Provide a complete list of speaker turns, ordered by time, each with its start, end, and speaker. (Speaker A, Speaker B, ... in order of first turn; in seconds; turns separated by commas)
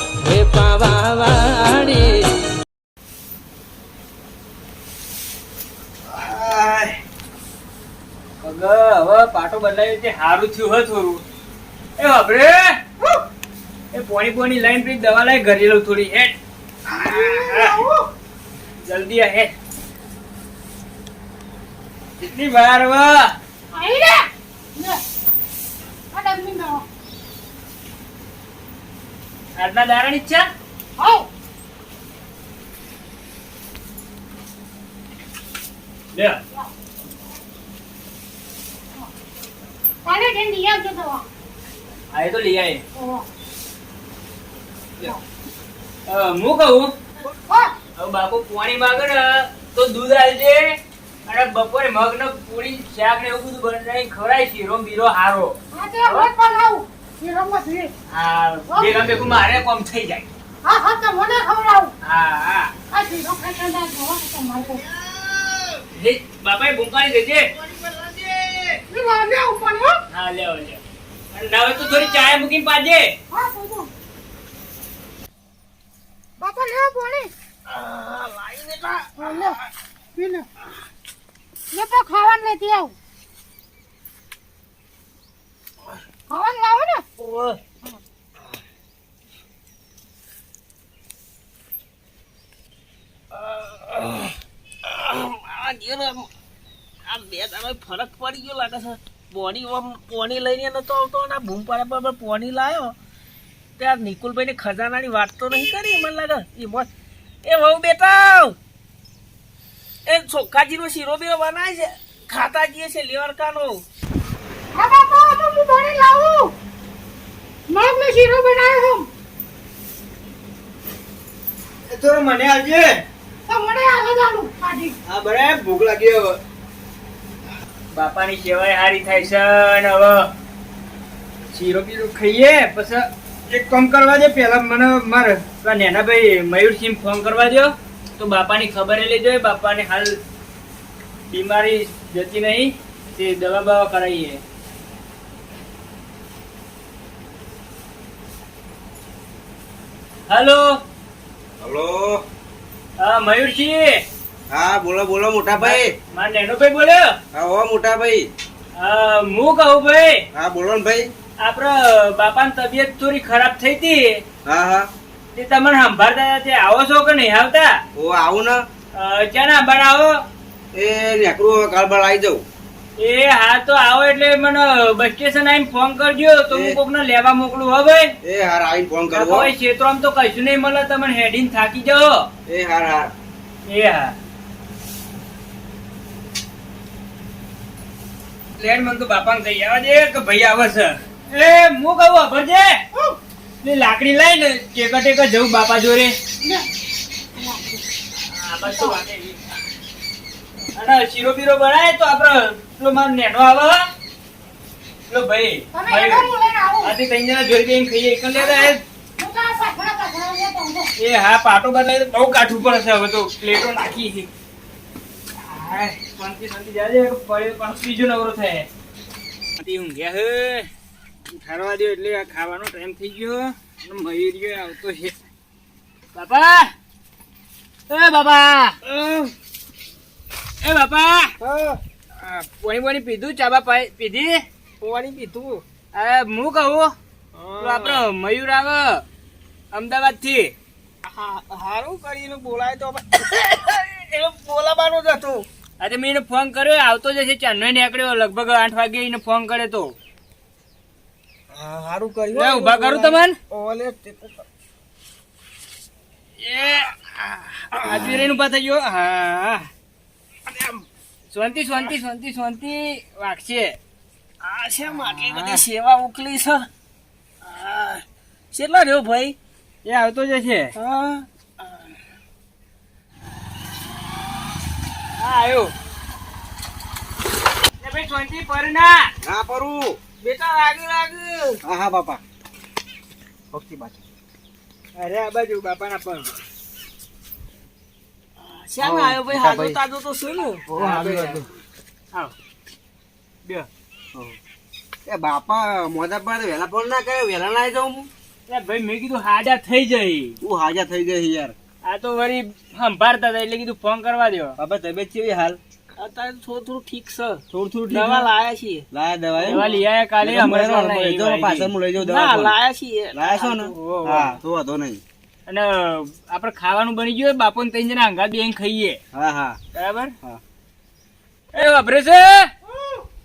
Speaker A: 0.2-2.2, Speaker B: 6.2-6.7, Speaker C: 8.4-11.2, Speaker C: 12.0-12.7, Speaker C: 13.9-16.3, Speaker C: 16.9-17.8, Speaker D: 17.0-18.1, Speaker C: 18.8-19.5, Speaker C: 22.2-23.3, Speaker D: 23.7-25.0, Speaker D: 26.1-26.9, Speaker C: 29.6-30.5, Speaker D: 31.0-31.3, Speaker C: 36.1-36.4, Speaker D: 40.0-41.2, Speaker C: 42.1-42.8, Speaker D: 43.0-43.2, Speaker C: 46.1-46.9, Speaker D: 47.5-47.7, Speaker C: 48.0-50.7, Speaker C: 51.3-55.6, Speaker D: 55.7-57.9, Speaker C: 58.1-60.3, Speaker D: 58.7-59.0, Speaker D: 60.6-61.9, Speaker C: 62.0-62.7, Speaker D: 62.9-64.8, Speaker C: 65.9-67.5, Speaker E: 67.7-68.8, Speaker D: 68.9-70.0, Speaker C: 70.1-70.8, Speaker C: 71.3-73.1, Speaker D: 73.3-73.9, Speaker D: 76.4-77.3, Speaker E: 77.7-79.5, Speaker D: 79.2-79.6, Speaker D: 80.2-80.5, Speaker D: 81.7-83.0, Speaker D: 86.3-87.1, Speaker E: 87.2-87.6, Speaker E: 93.3-96.3, Speaker E: 97.1-103.0, Speaker E: 103.8-106.9, Speaker E: 107.4-108.6, Speaker E: 110.1-113.8, Speaker D: 114.7-116.5, Speaker D: 117.7-119.1, Speaker C: 121.9-123.0, Speaker D: 123.5-125.0, Speaker C: 125.1-126.4, Speaker C: 127.9-130.3, Speaker C: 131.5-140.2, Speaker C: 141.3-144.4, Speaker C: 150.3-150.8, Speaker B: 151.6-152.2, Speaker C: 153.0-154.0, Speaker B: 154.5-155.9, Speaker C: 155.6-157.1, Speaker B: 157.3-158.3, Speaker C: 158.8-160.2, Speaker B: 160.3-161.1, Speaker C: 161.4-164.2, Speaker B: 164.4-164.9, Speaker C: 165.3-167.7, Speaker B: 168.0-168.6, Speaker C: 168.9-170.2, Speaker B: 170.7-172.4, Speaker C: 173.0-178.1, Speaker B: 176.5-176.8, Speaker B: 178.2-179.5, Speaker C: 179.1-182.3, Speaker B: 182.5-183.1, Speaker C: 183.7-184.2, Speaker C: 188.6-192.8, Speaker C: 193.6-196.2, Speaker D: 196.4-196.7, Speaker D: 197.3-197.8, Speaker C: 198.2-199.4, Speaker D: 198.7-198.9, Speaker C: 200.7-203.8, Speaker C: 205.1-206.3, Speaker D: 205.7-206.9, Speaker C: 206.8-208.8, Speaker D: 208.4-210.9, Speaker C: 211.0-214.3, Speaker C: 215.4-218.7, Speaker C: 219.6-220.7, Speaker C: 221.3-225.1, Speaker C: 226.1-226.7, Speaker C: 227.9-228.8, Speaker E: 228.8-229.3, Speaker C: 230.6-231.3, Speaker E: 231.4-231.8, Speaker C: 232.2-234.4, Speaker E: 234.8-235.6, Speaker C: 235.9-236.9, Speaker E: 237.3-238.0, Speaker C: 237.6-239.1, Speaker C: 239.7-240.5, Speaker E: 241.1-245.5, Speaker C: 245.8-249.9, Speaker E: 251.5-254.2, Speaker C: 252.3-253.4, Speaker E: 256.4-258.1, Speaker C: 257.8-259.7, Speaker E: 260.5-260.8, Speaker C: 261.3-263.8, Speaker E: 264.4-266.7, Speaker C: 265.1-265.6, Speaker E: 267.4-269.4, Speaker C: 269.8-270.7, Speaker E: 270.8-271.9, Speaker C: 275.2-275.7, Speaker C: 277.8-279.1, Speaker B: 279.2-280.0, Speaker E: 280.2-281.6, Speaker B: 281.6-282.2, Speaker B: 283.5-284.0, Speaker E: 285.0-285.6, Speaker C: 285.0-286.2, Speaker E: 288.4-290.7, Speaker B: 288.8-289.8, Speaker B: 290.7-291.5, Speaker C: 290.8-291.4, Speaker B: 295.1-298.1, Speaker C: 298.5-300.4, Speaker B: 300.4-301.6, Speaker C: 301.8-304.6, Speaker B: 304.6-305.6, Speaker E: 306.0-308.9, Speaker B: 307.5-308.3, Speaker B: 308.9-309.7, Speaker E: 309.4-309.8, Speaker C: 309.5-311.7, Speaker B: 310.2-312.6, Speaker E: 312.0-313.7, Speaker B: 313.1-315.0, Speaker C: 313.7-314.4, Speaker C: 315.5-319.0, Speaker B: 319.1-319.6, Speaker C: 319.7-320.1, Speaker C: 321.5-322.5, Speaker D: 322.7-323.0